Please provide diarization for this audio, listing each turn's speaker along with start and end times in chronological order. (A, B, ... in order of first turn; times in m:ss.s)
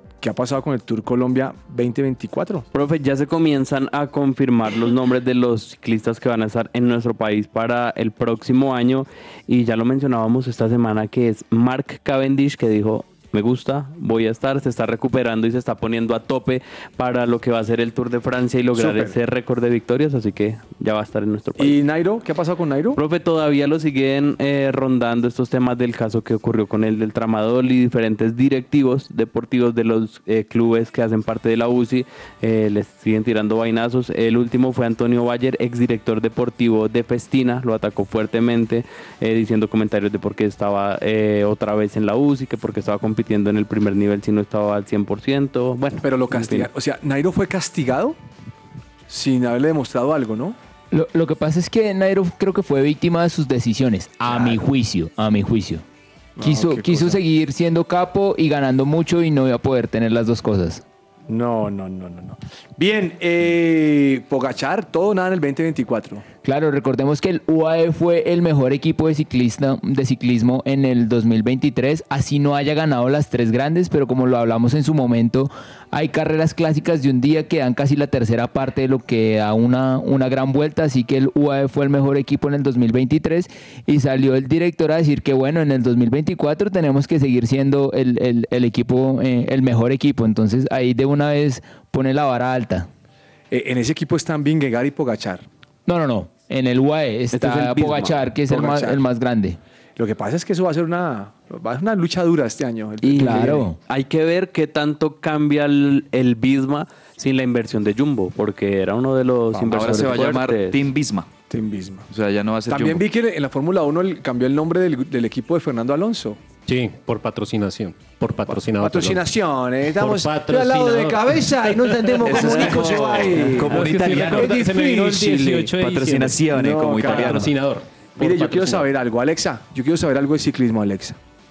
0:00.2-0:02.7 A
0:02.7-0:21.8 B
0:18.7-0:19.2 A
0:21.6-0:23.0 A
0:23.0-0:46.7 B
0:46.0-0:48.2 A
0:49.1-0:50.6 A
0:50.9-0:55.8 C
0:54.3-0:54.6 A
0:56.4-0:57.2 A
0:56.4-1:00.8 C
1:01.3-1:06.2 A
1:06.4-1:32.9 C
1:33.5-1:35.5 A
1:35.9-1:39.6 C
1:37.3-1:38.3 B
1:38.5-1:39.0 A
1:40.0-1:43.7 A
1:43.0-1:43.8 C
1:43.1-1:50.8 B
1:49.6-1:51.3 D
1:51.5-1:52.1 A
1:52.1-1:53.0 D
1:52.7-1:56.4 A
1:56.7-1:59.2 E
1:58.5-2:05.5 A
1:59.9-2:02.9 E
2:02.2-2:04.6 D
2:03.6-2:08.9 E
2:05.4-2:07.5 D
2:06.5-2:07.5 A
2:08.2-2:11.2 A